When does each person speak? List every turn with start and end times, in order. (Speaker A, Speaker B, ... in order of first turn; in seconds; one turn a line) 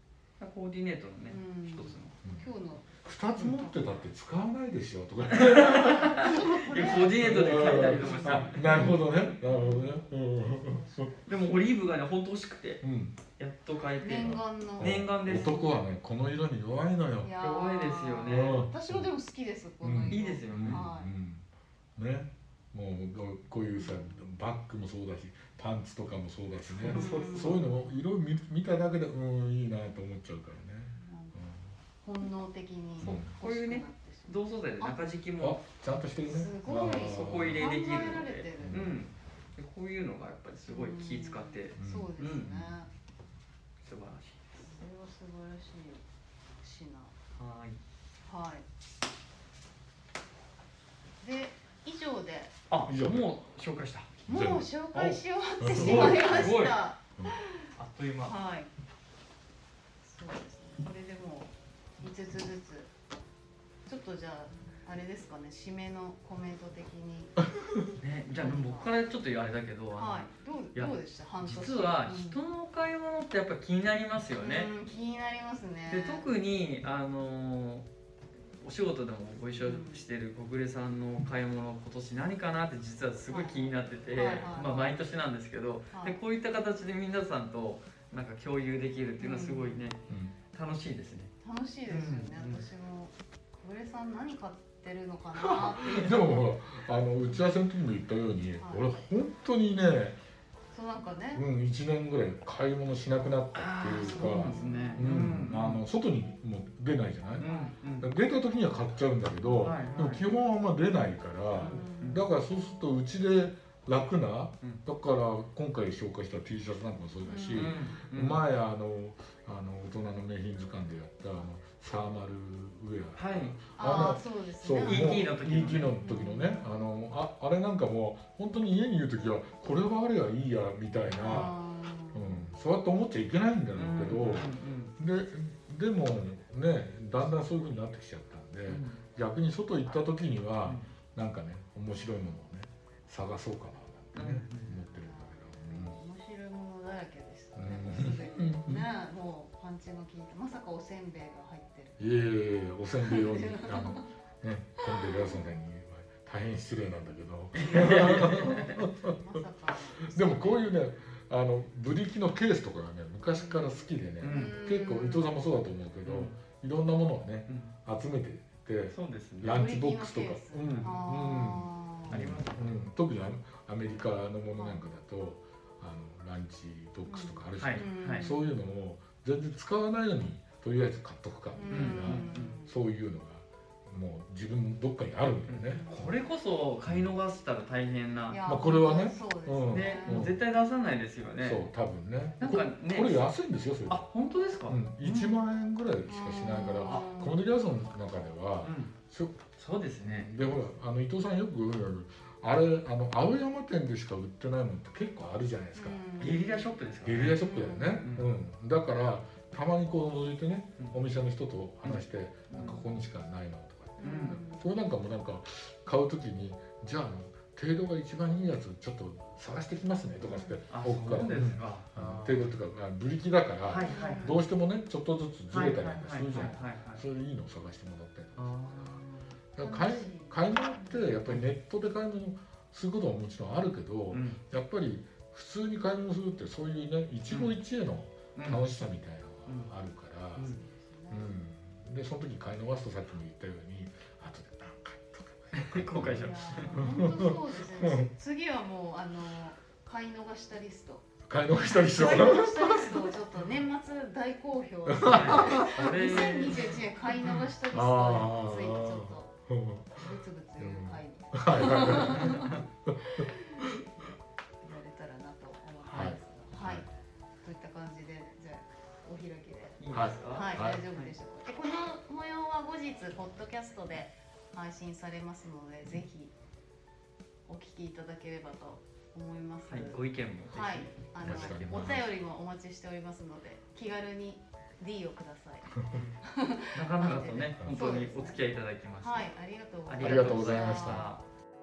Speaker A: 0.4-2.1
Speaker B: 1.3-3.8
Speaker C: 3.0-11.1
Speaker A: 5.3-8.9
Speaker B: 6.1-10.1
Speaker B: 10.6-11.2
Speaker A: 11.3-12.8
Speaker C: 12.8-13.2
Speaker A: 13.4-15.7
Speaker B: 14.0-15.0
Speaker C: 14.2-17.3
Speaker B: 17.2-21.1
Speaker A: 17.4-18.6
Speaker C: 18.3-19.1
Speaker C: 19.8-31.7
Speaker A: 20.1-20.9
Speaker B: 23.7-24.3
Speaker A: 26.8-27.6
Speaker B: 26.8-27.7
Speaker B: 30.9-31.4
Speaker B: 32.0-35.0
Speaker C: 33.0-33.3
Speaker A: 33.0-35.6
Speaker C: 35.4-37.6
Speaker B: 36.2-38.9
Speaker A: 36.9-42.7
Speaker C: 38.6-39.0
Speaker B: 40.7-42.9
Speaker C: 41.8-42.7
Speaker A: 43.8-44.6
Speaker B: 44.6-46.0
Speaker B: 46.6-47.1
Speaker A: 47.3-47.8
Speaker B: 48.2-48.6
Speaker B: 51.2-52.5
Speaker A: 52.7-54.1
Speaker C: 52.9-53.3
Speaker B: 54.2-57.7
Speaker C: 54.3-54.7
Speaker A: 54.9-56.8
Speaker C: 55.6-57.3
Speaker A: 57.8-58.3
Speaker B: 58.2-58.7
Speaker B: 60.0-62.9
Speaker B: 63.9-67.3
Speaker A: 68.0-74.7
Speaker B: 68.3-68.9
Speaker B: 70.0-72.4
Speaker B: 74.3-76.3
Speaker A: 75.9-77.9
Speaker A: 78.6-91.3
Speaker B: 79.6-80.0
Speaker B: 83.3-85.0
Speaker B: 85.9-86.2
Speaker B: 89.2-89.8
Speaker C: 90.1-90.3
Speaker B: 91.4-96.3
Speaker A: 91.9-92.7
Speaker A: 95.4-96.2
Speaker C: 95.9-100.2
Speaker B: 98.6-98.9
Speaker B: 100.7-101.5
Speaker C: 101.3-107.5
Speaker A: 103.5-105.8
Speaker B: 104.1-105.1
Speaker A: 107.4-108.1
Speaker B: 107.4-107.8
Speaker C: 108.0-131.6
Speaker A: 109.6-110.2
Speaker A: 111.6-112.2
Speaker B: 111.6-112.2
Speaker B: 117.2-117.8
Speaker A: 117.5-118.4
Speaker A: 123.2-123.6
Speaker B: 123.8-125.2
Speaker A: 124.8-126.0
Speaker B: 126.0-126.6
Speaker B: 131.2-132.4
Speaker A: 131.2-131.5
Speaker C: 132.1-146.0
Speaker A: 133.7-134.9
Speaker A: 138.7-139.0
Speaker A: 144.1-144.7
Speaker B: 144.9-152.1
Speaker C: 147.5-148.8
Speaker C: 152.0-159.2
Speaker B: 153.0-154.1
Speaker B: 154.8-155.3
Speaker A: 157.5-158.8
Speaker B: 158.4-160.7
Speaker C: 160.0-185.8
Speaker B: 163.3-165.3
Speaker A: 164.2-164.6
Speaker A: 166.0-166.3
Speaker A: 167.5-167.7
Speaker A: 168.9-169.6
Speaker B: 169.4-172.2
Speaker A: 170.6-170.9
Speaker A: 172.1-172.8
Speaker B: 174.6-174.8
Speaker B: 177.1-178.5
Speaker A: 177.6-178.3
Speaker B: 181.5-182.8
Speaker A: 181.7-182.6
Speaker A: 185.5-188.4
Speaker B: 185.7-186.1
Speaker B: 188.3-190.3
Speaker C: 188.4-190.4
Speaker A: 189.7-191.6
Speaker C: 191.4-194.0
Speaker A: 192.4-193.2
Speaker A: 193.9-195.4
Speaker C: 194.7-199.4
Speaker B: 196.1-197.3
Speaker A: 198.6-198.9
Speaker A: 199.6-200.3
Speaker C: 200.0-206.0
Speaker B: 200.4-200.7
Speaker B: 205.7-206.6
Speaker A: 206.2-208.3
Speaker C: 207.0-229.0
Speaker B: 207.3-208.0
Speaker A: 211.8-212.8
Speaker B: 212.5-212.9
Speaker B: 214.0-214.7
Speaker A: 214.0-214.4
Speaker B: 220.3-220.6
Speaker A: 220.7-222.5
Speaker A: 223.7-224.4
Speaker B: 223.7-224.4
Speaker A: 225.5-227.0
Speaker A: 228.4-229.3
Speaker C: 229.5-240.5
Speaker B: 229.6-231.1
Speaker A: 234.1-234.4
Speaker A: 238.3-238.6
Speaker A: 239.5-239.7
Speaker B: 240.4-241.4
Speaker C: 241.1-248.1
Speaker A: 245.5-246.8
Speaker B: 245.9-259.3
Speaker C: 251.3-252.9
Speaker A: 251.9-252.9
Speaker C: 254.9-255.9
Speaker A: 255.0-257.4
Speaker C: 257.3-260.0
Speaker B: 259.9-263.7
Speaker C: 260.6-263.8
Speaker A: 262.1-262.6
Speaker B: 264.6-266.9
Speaker A: 265.9-266.2
Speaker C: 265.9-266.9
Speaker B: 267.4-276.3
Speaker A: 269.8-271.1
Speaker C: 269.9-270.8
Speaker B: 277.5-288.4
Speaker A: 279.7-282.0
Speaker C: 281.2-282.0
Speaker A: 286.7-289.3
Speaker B: 289.0-291.1
Speaker A: 289.9-291.2
Speaker C: 290.0-291.1